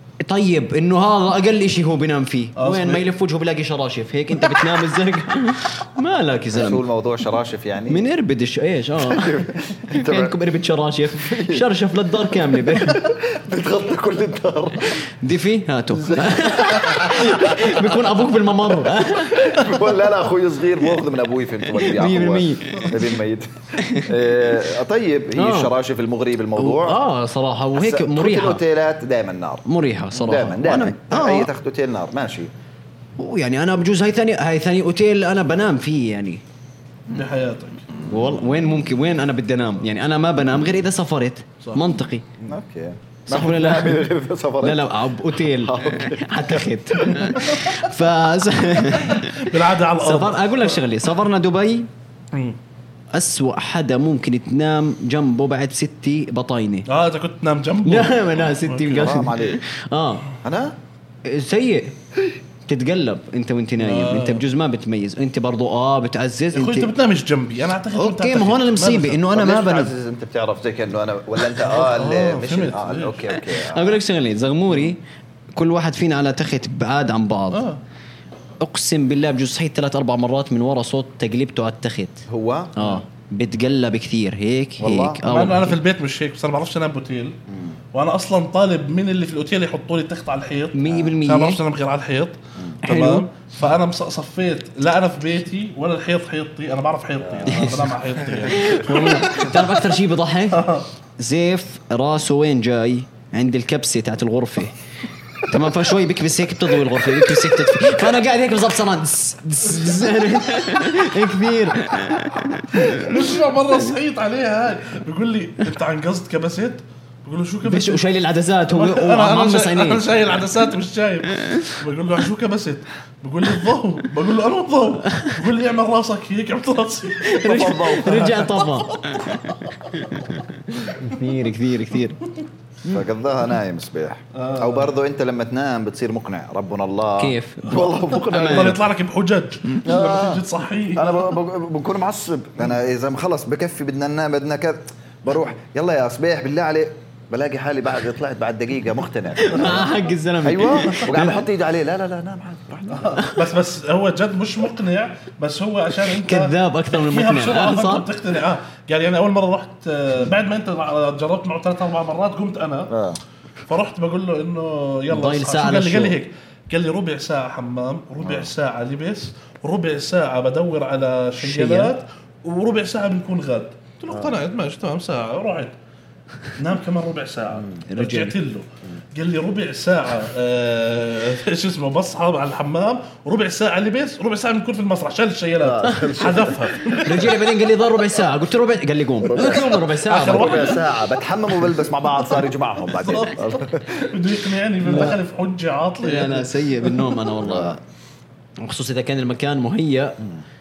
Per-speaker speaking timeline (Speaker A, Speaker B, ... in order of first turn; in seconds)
Speaker A: 0.2-6.8, 7.9-13.0, 15.1-19.8, 21.8-23.0, 23.8-24.1, 25.4-25.7, 26.6-28.6, 29.6-31.5, 33.2-36.4, 38.1-42.2, 43.3-44.1, 44.6-51.9, 53.1-56.9, 57.8-60.3, 61.2-62.0, 62.6-66.9, 67.9-69.9, 73.5-75.0, 75.5-77.7, 78.6-82.2, 82.8-85.8, 90.7-91.6, 92.8-93.2, 97.5-97.9, 98.5-104.7, 105.5-113.1, 117.6-120.0, 127.2-132.2, 137.2-138.8, 149.4-151.4, 153.1-153.4, 156.0-158.1, 165.1-166.2, 171.4-171.9, 177.9-178.3, 187.0-190.7, 194.8-195.2, 196.0-197.8, 198.6-200.2
Speaker B: 2.5-3.0, 37.1-37.9, 48.8-50.8, 56.9-59.3, 63.8-64.4, 66.5-69.2, 71.6-73.3, 77.5-77.8, 85.2-87.4, 87.9-99.6, 100.5-100.9, 112.7-118.0, 118.7-130.4, 134.3-134.9, 137.7-141.2, 152.9-162.9, 163.6-175.7, 176.5-187.3, 189.4-190.9, 192.9-197.2
Speaker C: 6.5-8.1, 9.0-10.4, 11.1-11.7, 12.8-15.0, 15.9-17.9, 18.9-27.0, 27.7-32.5, 42.5-47.5, 58.9-59.6, 60.4-60.8, 69.3-74.0, 82.3-82.7, 84.8-85.2, 87.5-87.8, 90.9-91.1, 97.2-98.7, 127.4-128.5, 132.9-138.8, 139.8-149.9, 150.4-153.2, 162.9-163.2, 168.2-168.5, 174.1-174.4, 185.6-186.9, 189.2-194.0, 197.4-197.8